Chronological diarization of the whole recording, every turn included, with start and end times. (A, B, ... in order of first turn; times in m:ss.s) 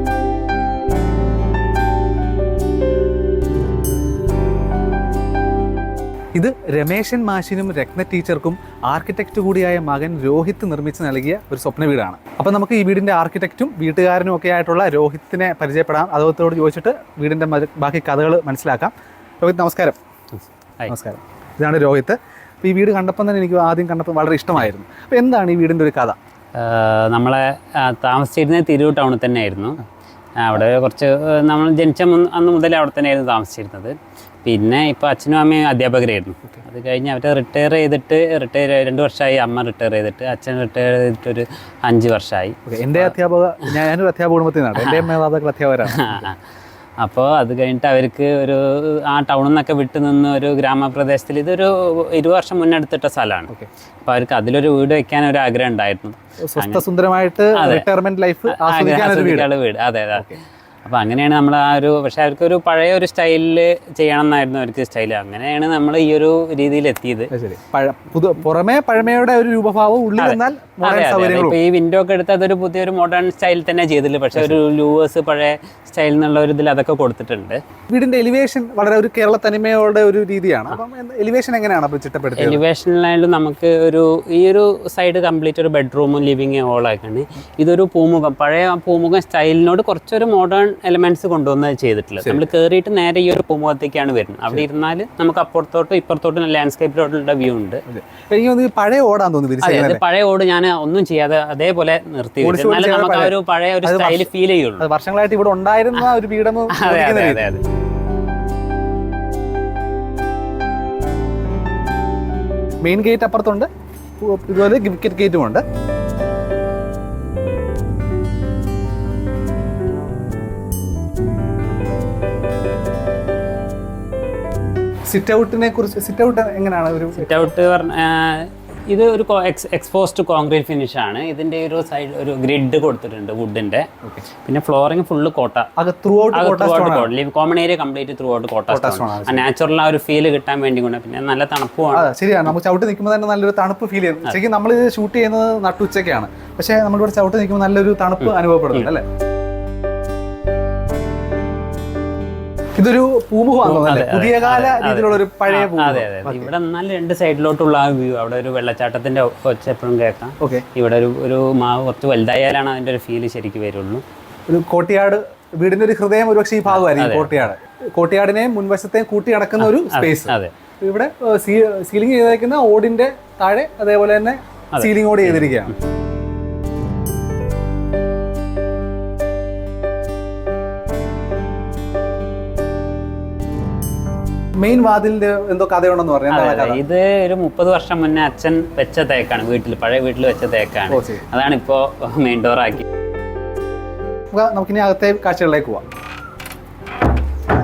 0:06.3-0:20.0 A
0:20.9-0:26.2 A
0:26.6-0:29.8 B
0:30.4-0:43.1 B
0:42.7-0:46.2 A
0:44.8-0:45.1 B
0:45.9-0:46.4 B
0:47.0-0:53.5 B
0:54.0-0:56.8 B
0:56.5-0:59.5 A
0:57.5-0:57.8 B
0:58.5-1:00.3 B
1:00.8-1:07.3 B
1:07.3-1:11.6 A
1:10.2-1:17.6 B
1:17.9-1:22.6 A
1:22.4-1:37.8 B
1:37.9-1:40.0 A
1:39.6-1:44.8 B
1:42.4-1:44.3 A
1:44.8-1:47.4 A
1:46.7-1:47.6 B
1:52.8-1:53.7 A
1:54.2-1:55.6 A
2:05.1-2:07.4 A
2:07.2-2:13.9 B
2:14.4-2:15.7 B
2:15.8-2:17.1 A
2:16.3-2:22.1 B
2:18.7-2:19.4 A
2:21.9-2:29.0 A
2:28.2-2:28.9 B
2:32.8-2:36.5 A
2:33.6-2:44.0 B
2:40.4-2:40.6 A
2:44.5-2:55.7 A
2:46.7-2:47.4 B
2:49.6-2:50.5 B
2:54.7-2:55.6 B
3:04.6-3:06.8 A
3:06.3-3:12.8 B
3:10.9-3:11.2 A
3:14.3-3:15.8 A